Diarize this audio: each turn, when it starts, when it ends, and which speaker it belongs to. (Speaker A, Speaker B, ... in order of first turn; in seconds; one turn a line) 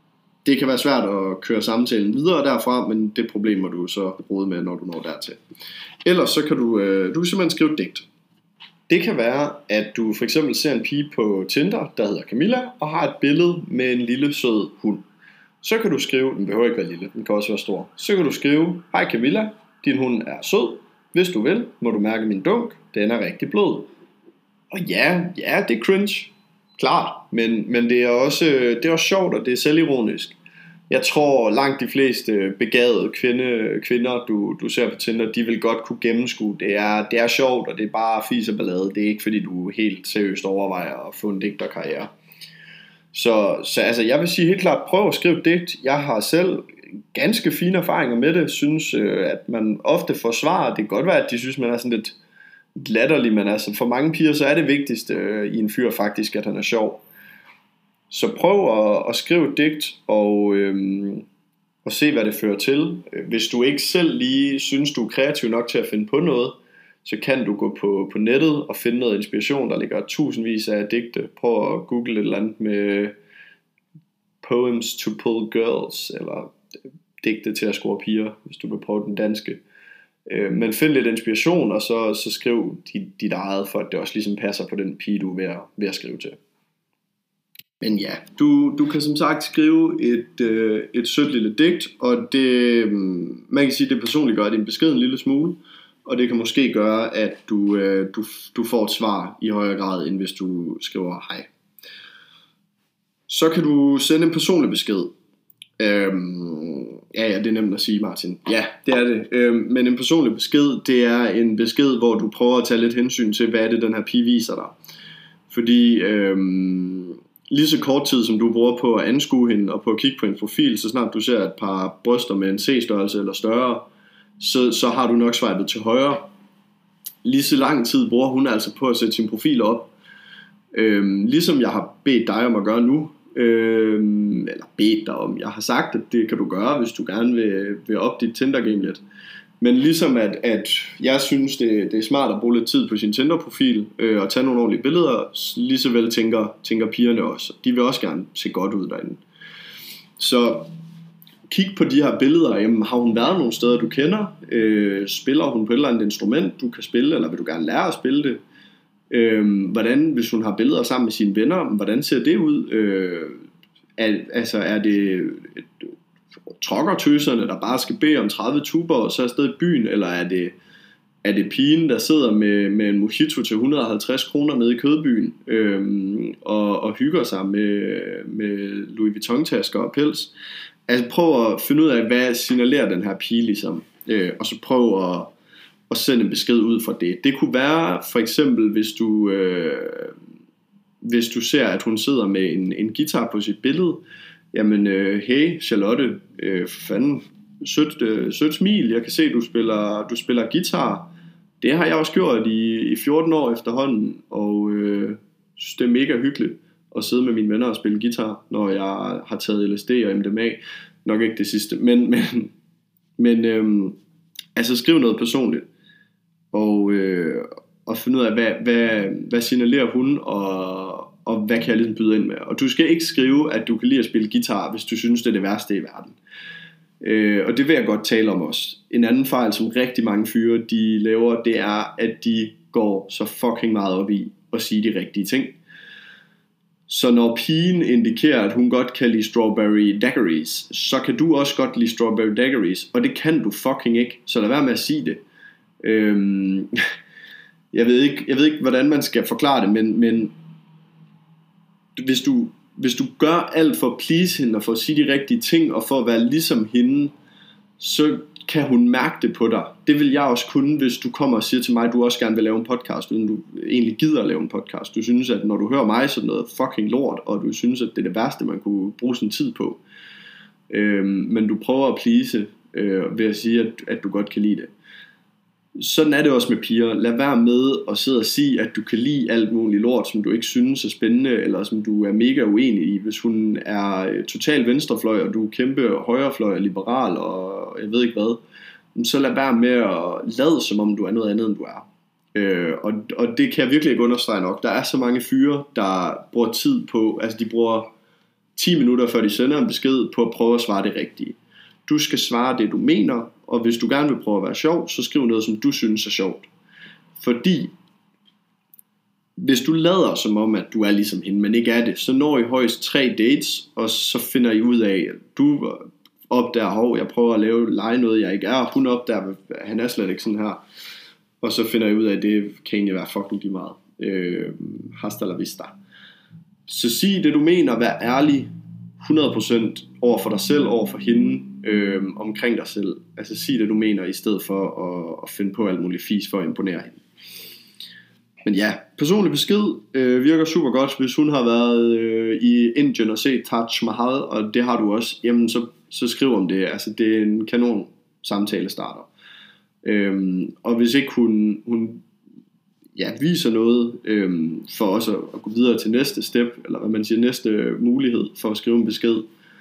Speaker A: 0.5-5.4
Speaker A: 6.0-8.1
Speaker A: 8.9-15.0
Speaker A: 15.6-23.9
Speaker A: 24.7-30.4
Speaker A: 30.9-42.1
Speaker A: 43.1-52.2
Speaker A: 52.8-57.0
Speaker A: 58.1-61.2
Speaker A: 61.8-73.1
Speaker A: 74.4-76.5
Speaker A: 77.2-79.6
Speaker A: 80.3-86.4
Speaker A: 87.8-101.5
Speaker A: 103.3-105.1
Speaker A: 105.8-114.7
Speaker A: 115.5-123.9
Speaker A: 124.4-126.3
Speaker A: 127.2-129.9
Speaker A: 130.7-139.0
Speaker A: 139.6-149.2
Speaker A: 150.2-150.7
Speaker A: 151.5-158.4
Speaker A: 159.1-163.4
Speaker A: 164.0-165.9
Speaker A: 166.6-170.6
Speaker A: 171.2-180.3
Speaker A: 180.9-185.3
Speaker A: 185.9-190.1
Speaker A: 191.0-212.5
Speaker A: 213.2-214.0
Speaker A: 214.6-215.7
Speaker A: 216.5-226.2
Speaker A: 227.0-235.6
Speaker A: 236.9-245.2
Speaker A: 245.8-246.7
Speaker A: 247.7-250.3
Speaker A: 251.9-257.1
Speaker A: 257.8-269.8
Speaker A: 270.7-274.7
Speaker A: 275.8-288.4
Speaker A: 288.9-297.9
Speaker A: 298.6-306.5
Speaker A: 307.2-307.7
Speaker A: 309.4-320.6
Speaker A: 321.4-325.8
Speaker A: 326.7-337.0
Speaker A: 338.4-349.1
Speaker A: 349.8-352.1
Speaker A: 352.9-359.3